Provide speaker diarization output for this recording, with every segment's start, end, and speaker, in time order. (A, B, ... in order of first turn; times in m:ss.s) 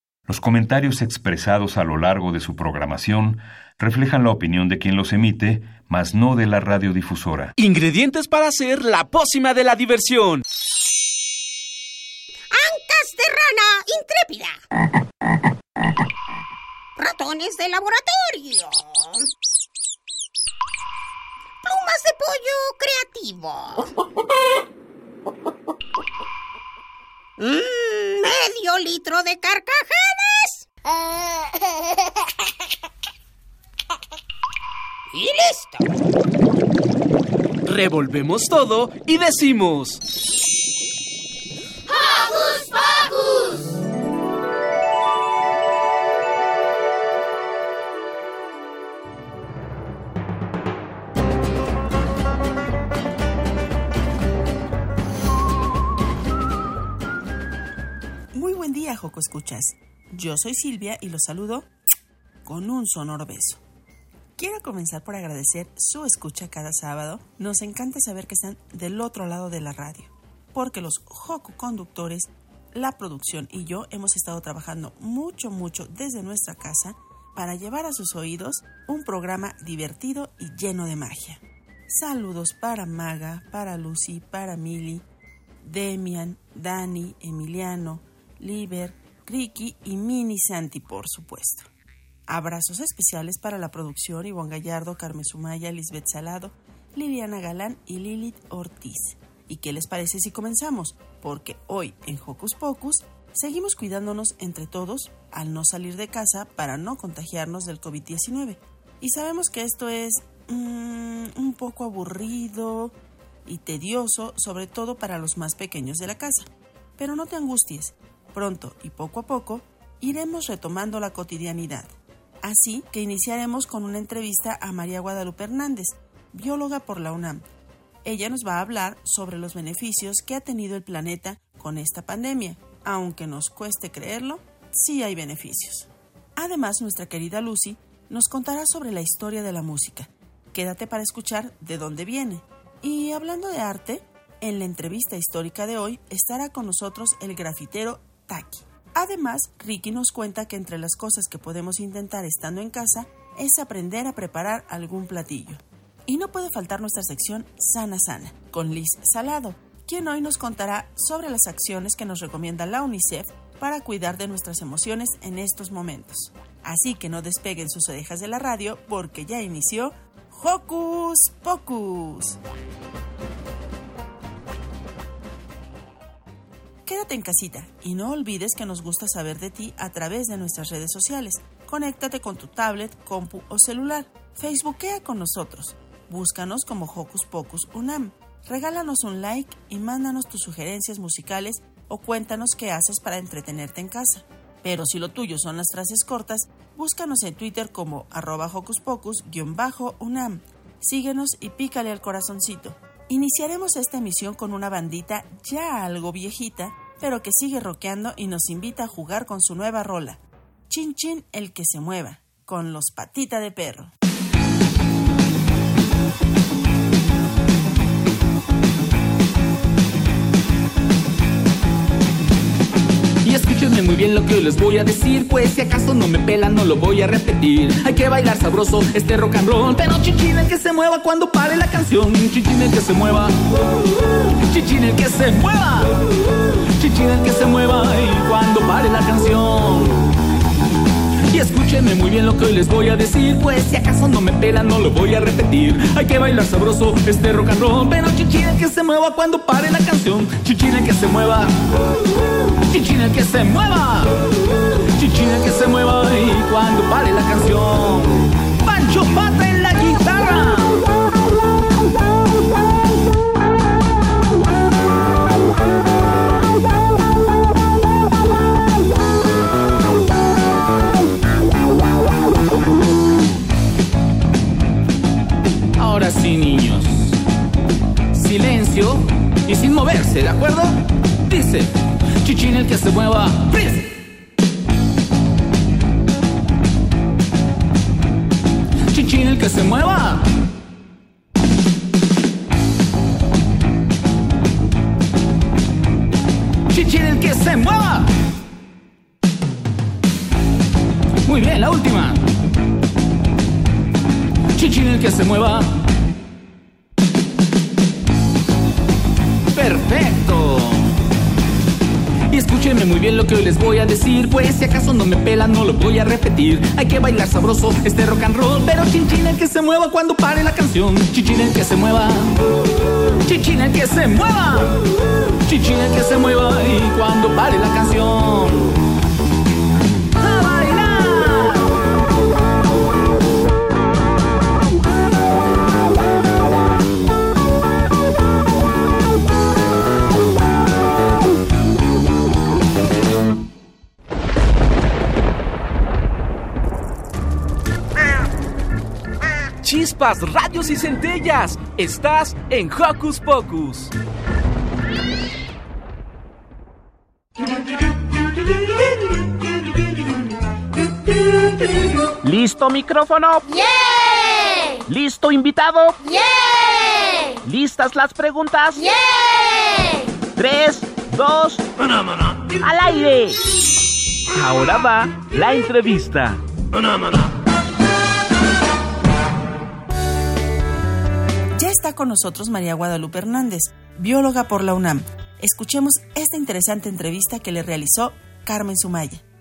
0:00.3-0:07.5 A
0:07.6-0:10.4 B
0:12.5-0:14.6 C
0:17.0-0:19.3 C
0:21.6-0:23.9 C
0:27.4-0:31.7 C
0:35.1-0:35.8 C
0:37.6-0:40.0 B
0:42.5-0:43.0 C
0:58.3-1:01.7 D
1:02.4-1:03.6 D
1:04.4-1:25.0 D
1:25.6-1:31.7 D
1:32.3-1:53.0 D
1:53.5-2:07.4 D
2:08.0-2:52.4 D
2:56.8-3:33.9 D
3:43.2-3:53.4 E
3:54.4-4:00.1 E
4:01.3-4:11.6 E
4:12.7-4:14.3 E
4:15.0-4:20.8 E
4:35.8-4:37.2 E
4:38.1-4:43.9 E
4:48.9-4:50.3 E
4:56.7-4:58.1 E
5:01.2-5:02.2 E
5:04.6-5:05.8 E
5:09.5-5:10.8 E
5:12.3-5:22.4 E
5:23.2-5:24.8 E
5:25.5-5:28.7 E
5:30.2-5:31.7 E
5:49.6-5:53.9 B
6:02.2-6:03.4 F
6:03.4-6:04.8 G
6:04.9-6:06.0 F
6:06.0-6:07.4 G
6:07.5-6:08.8 F
6:08.7-6:10.1 G
6:10.4-6:11.6 F
6:12.6-6:13.4 F
6:14.4-6:16.4 F
6:21.6-6:29.2 D